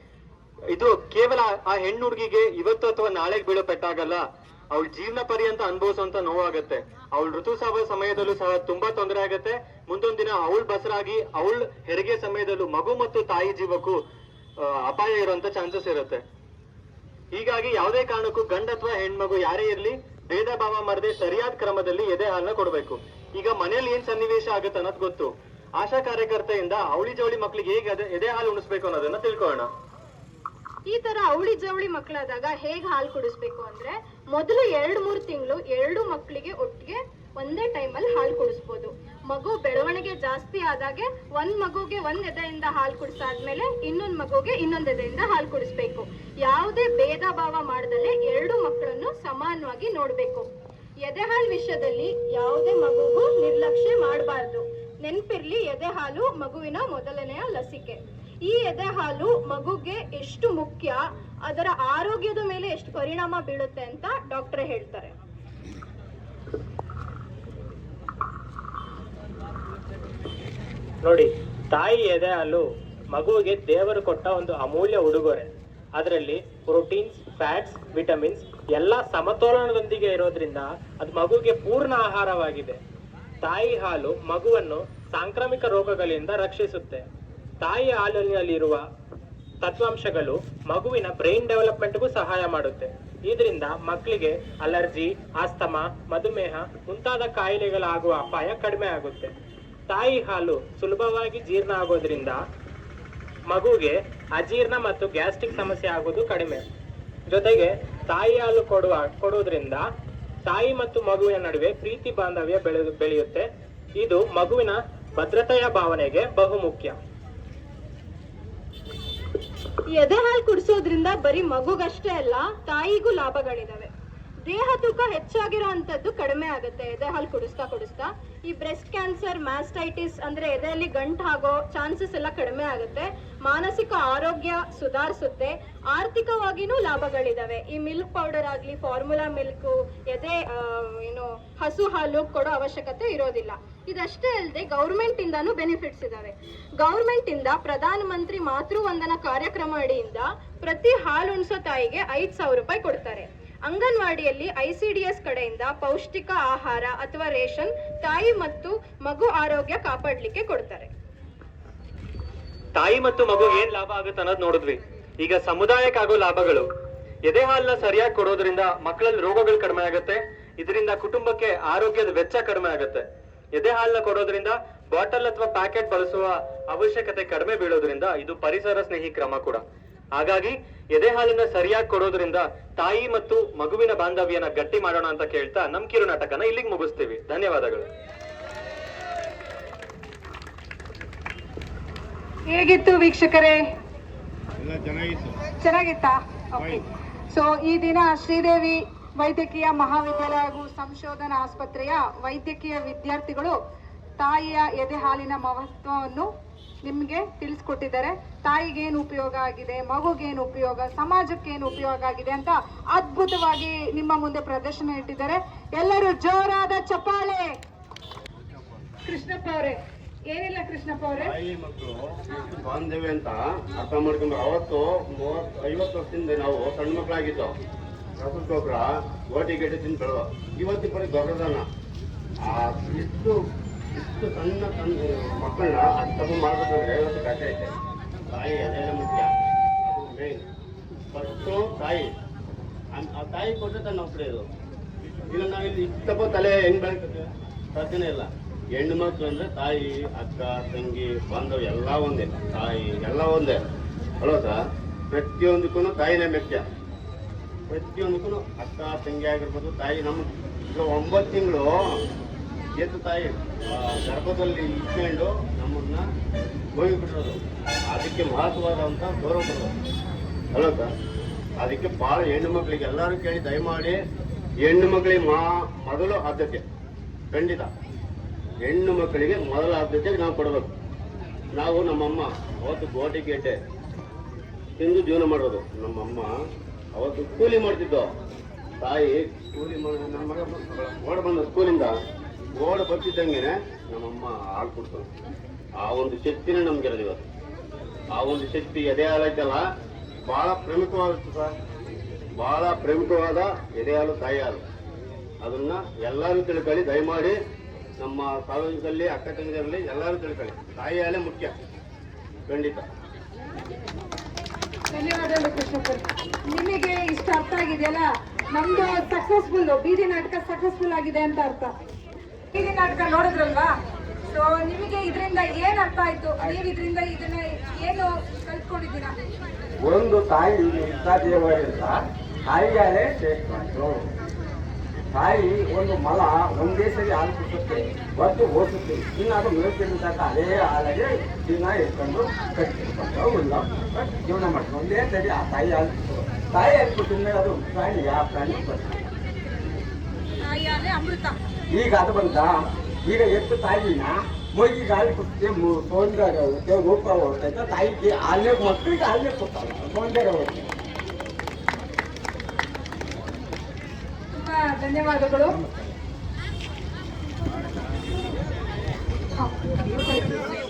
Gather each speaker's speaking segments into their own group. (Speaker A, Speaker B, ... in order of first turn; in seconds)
Speaker A: 0.7-14.0, 14.6-16.2, 17.3-29.7, 162.8-166.7, 167.3-179.6, 180.2-187.9
Speaker B: 30.9-50.5, 51.0-65.1, 119.9-123.9, 124.5-160.9
Speaker C: 71.0-82.8, 83.4-87.1, 87.6-88.8, 89.6-99.3, 99.9-102.4, 103.5-106.6, 107.3-109.8, 110.5-113.5, 114.0-117.0
Speaker D: 192.5-193.6, 195.6-203.6, 204.2-206.3, 206.8-217.5, 219.1-219.8, 220.3-221.3, 314.9-321.7, 322.5-323.7, 324.3-329.2, 350.4-351.4, 364.4-365.6, 369.4-370.4
Speaker E: 194.6-195.4, 221.2-227.6, 228.2-231.7, 232.4-233.4, 233.9-237.7, 238.3-240.5, 241.1-242.1, 242.9-244.4, 245.3-253.6, 254.2-254.6, 255.1-256.6, 257.7-261.9, 262.8-266.1, 266.8-267.4, 267.9-269.7, 270.5-270.9, 271.6-274.0, 274.6-276.6, 277.3-277.7, 278.6-280.7, 281.6-283.6, 284.8-286.3, 286.9-288.1, 288.8-292.0, 292.6-295.1, 295.8-297.3, 298.1-299.7, 300.3-301.6, 302.4-304.6, 305.4-307.4, 308.0-311.6, 312.5-312.9
Speaker F: 329.8-334.1, 335.1-349.1, 351.7-360.7, 365.5-365.9